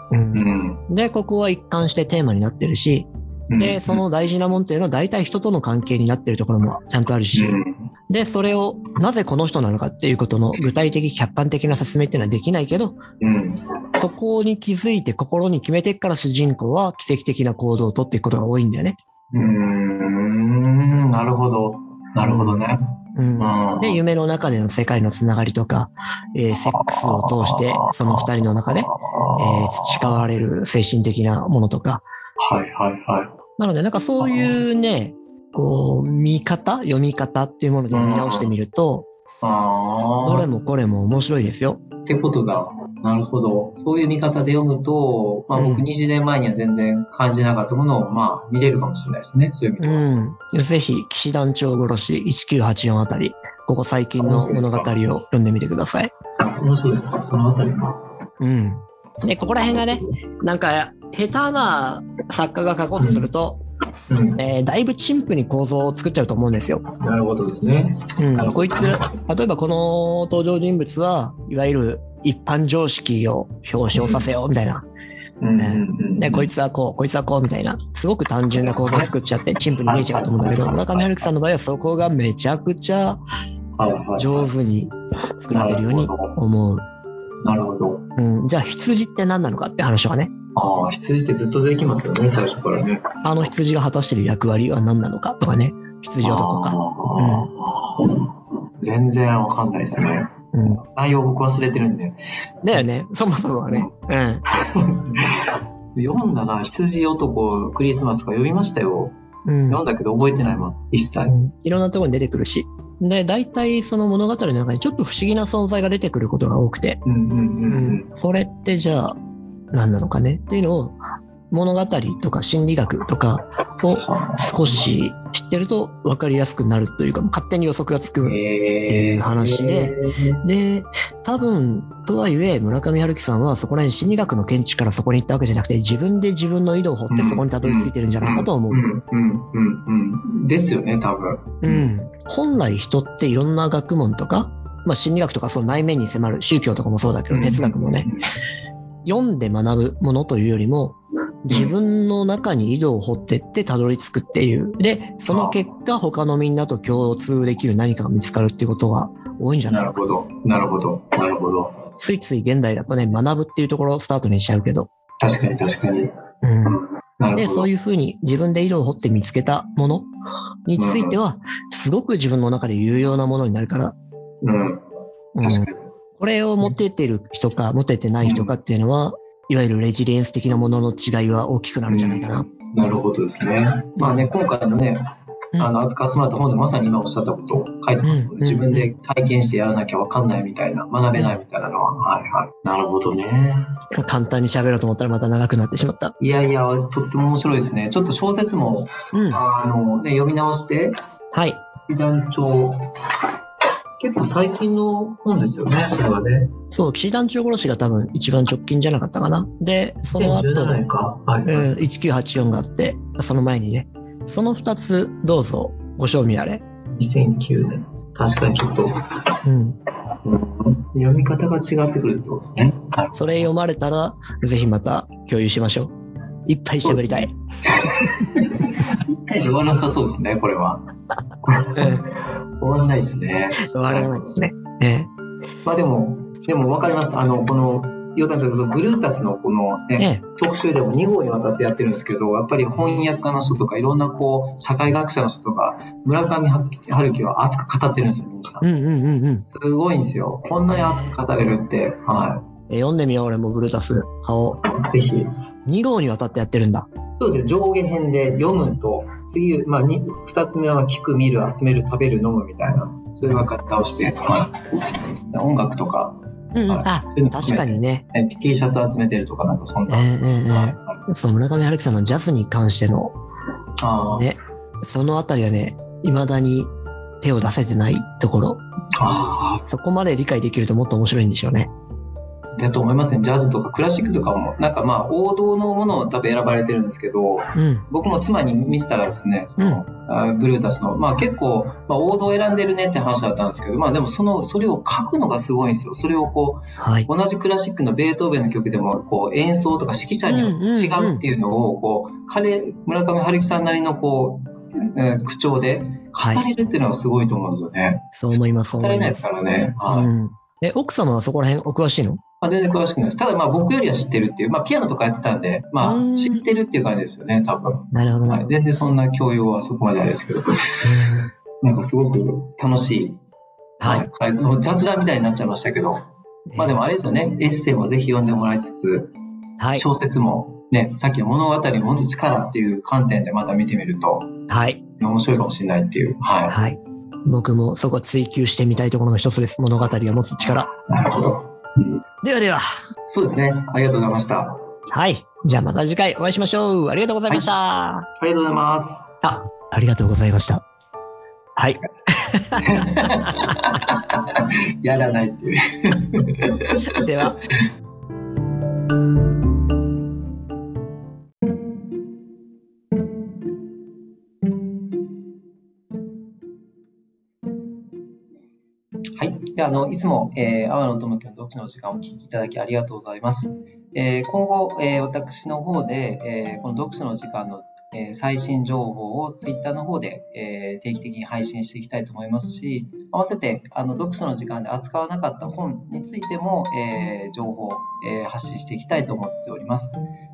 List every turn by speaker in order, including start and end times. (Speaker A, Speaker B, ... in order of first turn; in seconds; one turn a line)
Speaker A: 0.1-3.1
Speaker B: 0.3-0.8
Speaker B: 3.5-4.0
Speaker A: 3.6-7.6
Speaker B: 7.3-7.9
Speaker A: 8.1-13.0
Speaker B: 13.2-13.6
Speaker A: 14.0-19.0
Speaker B: 19.3-24.0
Speaker A: 22.2-22.6
Speaker A: 23.1-32.0
Speaker B: 26.5-30.2
Speaker B: 32.4-33.3
Speaker A: 33.6-39.1
Speaker B: 34.2-34.6
Speaker B: 37.9-38.5
Speaker B: 39.4-40.5
Speaker A: 40.2-41.8
Speaker B: 42.0-50.1
Speaker A: 45.5-45.9
Speaker A: 49.8-56.1
Speaker B: 54.2-55.0
Speaker B: 56.4-58.0
Speaker A: 58.4-63.6
Speaker B: 59.4-60.1
Speaker B: 63.0-63.2
Speaker B: 64.1-64.4
Speaker A: 64.4-66.8
Speaker B: 67.0-69.1
Speaker A: 68.2-74.8
Speaker B: 73.9-74.3
Speaker B: 75.4-76.5
Speaker A: 75.6-83.2
Speaker B: 78.5-79.1
Speaker B: 79.8-81.3
Speaker B: 83.8-84.5
Speaker A: 84.2-86.8
Speaker B: 85.5-86.4
Speaker B: 87.4-88.1
Speaker A: 88.2-90.3
Speaker B: 90.5-93.2
Speaker A: 93.2-97.5
Speaker B: 96.2-98.3
Speaker B: 98.8-102.2
Speaker A: 100.5-100.8
Speaker A: 102.6-104.4
Speaker B: 104.5-109.2
Speaker A: 109.4-109.8
Speaker B: 109.7-111.3
Speaker A: 111.3-117.0
Speaker B: 117.0-118.1
Speaker A: 117.7-119.2
Speaker A: 119.7-121.0
Speaker A: 121.5-138.8
Speaker B: 123.9-124.9
Speaker B: 128.2-130.4
Speaker B: 137.1-141.9
Speaker A: 141.6-148.1
Speaker B: 147.3-148.2
Speaker A: 149.0-160.0
Speaker B: 151.5-151.7
Speaker B: 155.3-155.6
Speaker B: 159.7-161.8
Speaker A: 162.0-164.9
Speaker B: 165.2-166.1
Speaker A: 166.4-166.8
Speaker B: 166.6-167.7
Speaker A: 167.3-170.1
Speaker A: 170.7-173.9
Speaker B: 170.8-171.2
Speaker B: 174.4-174.8
Speaker A: 175.3-182.4
Speaker B: 175.4-175.8
Speaker B: 178.2-178.5
Speaker B: 181.9-185.0
Speaker A: 184.0-184.3
Speaker B: 185.6-193.7
Speaker A: 188.0-188.9
Speaker A: 193.9-196.1
Speaker B: 196.2-200.9
Speaker A: 199.1-199.4
Speaker A: 201.3-201.6
Speaker B: 201.9-202.8
Speaker B: 204.0-206.5
Speaker A: 206.7-210.8
Speaker B: 210.1-211.7
Speaker A: 211.4-216.6
Speaker B: 217.0-219.0
Speaker A: 219.4-219.8
Speaker B: 220.2-223.5
Speaker A: 223.1-225.9
Speaker A: 226.4-227.3
Speaker B: 226.8-230.9
Speaker B: 231.4-234.3
Speaker A: 231.8-232.0
Speaker A: 233.6-235.1
Speaker B: 235.6-248.7
Speaker A: 240.0-240.2
Speaker A: 248.6-249.4
Speaker B: 249.5-252.4
Speaker A: 250.7-251.2
Speaker A: 252.7-254.6
Speaker B: 254.7-255.3
Speaker A: 255.7-256.9
Speaker B: 257.2-266.1
Speaker A: 266.5-268.0
Speaker B: 266.7-271.0
Speaker A: 269.9-273.1
Speaker B: 273.8-274.3
Speaker A: 274.1-278.6
Speaker B: 279.0-279.6
Speaker A: 279.7-281.7
Speaker B: 282.6-308.1
Speaker A: 287.6-287.9
Speaker A: 296.8-297.1
Speaker A: 300.3-301.2
Speaker A: 306.2-306.4
Speaker A: 308.1-309.2
Speaker B: 308.8-310.1
Speaker A: 309.9-312.2
Speaker B: 312.4-320.8
Speaker A: 315.8-316.4
Speaker A: 317.9-318.5
Speaker A: 320.8-321.3
Speaker B: 321.6-323.2
Speaker A: 323.8-324.1
Speaker B: 323.8-329.1
Speaker A: 326.5-326.8
Speaker A: 329.6-329.9
Speaker B: 329.7-334.3
Speaker A: 334.5-334.8
Speaker B: 335.0-336.6
Speaker A: 336.5-340.7
Speaker B: 340.4-342.0
Speaker A: 342.2-342.6
Speaker B: 343.1-344.6
Speaker A: 344.9-348.1
Speaker B: 348.2-349.2
Speaker A: 349.2-350.6
Speaker A: 351.6-353.5
Speaker B: 352.6-357.0
Speaker A: 356.9-357.4
Speaker B: 369.2-390.0